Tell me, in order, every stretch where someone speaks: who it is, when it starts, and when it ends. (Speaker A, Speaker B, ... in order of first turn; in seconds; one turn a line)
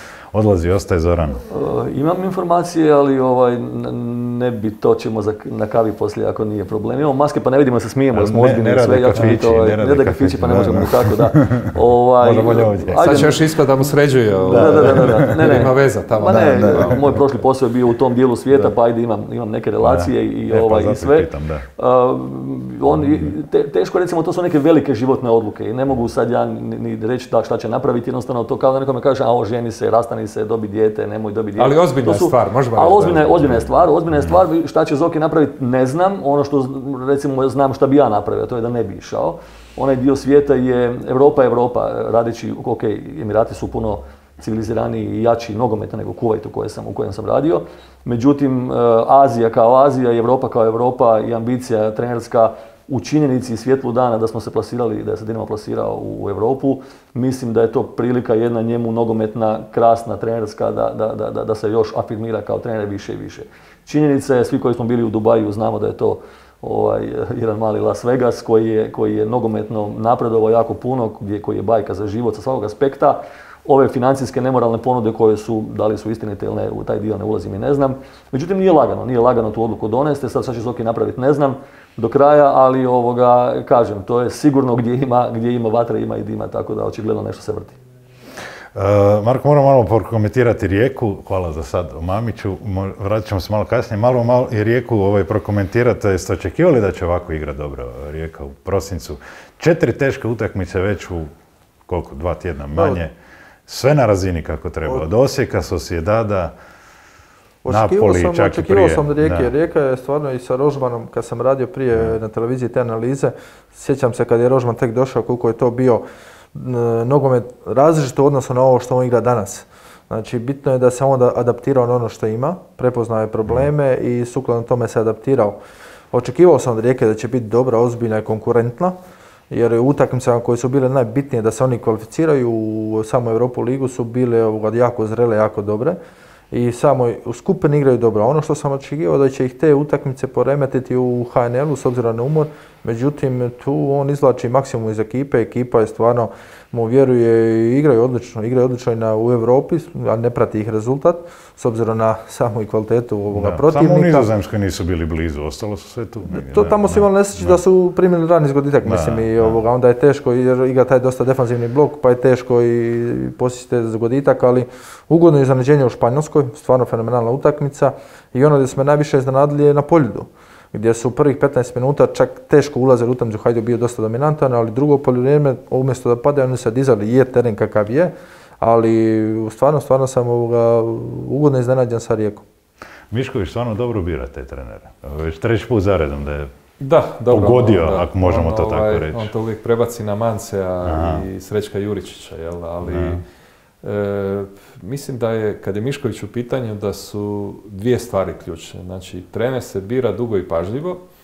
Speaker A: 0.3-1.4
Speaker B: 1.5-13.4
Speaker A: 8.1-13.4
Speaker C: 12.9-17.1
Speaker A: 14.4-15.7
Speaker B: 14.5-87.8
Speaker A: 16.2-17.2
Speaker A: 19.8-21.6
Speaker A: 22.9-23.3
Speaker C: 31.6-33.7
Speaker A: 88.7-101.3
Speaker A: 101.9-103.1
Speaker D: 102.7-103.0
Speaker A: 103.7-106.5
Speaker D: 107.6-116.0
Speaker A: 107.7-109.5
Speaker D: 116.5-125.6
Speaker D: 126.1-129.0
Speaker D: 129.5-136.0
Speaker D: 136.5-154.3
Speaker A: 153.3-157.6
Speaker D: 156.3-182.4
Speaker A: 158.8-159.6
Speaker A: 183.1-186.5
Speaker C: 186.8-193.2
Speaker A: 187.3-189.3
Speaker A: 190.8-191.2
Speaker A: 192.8-193.2
Speaker C: 193.8-201.0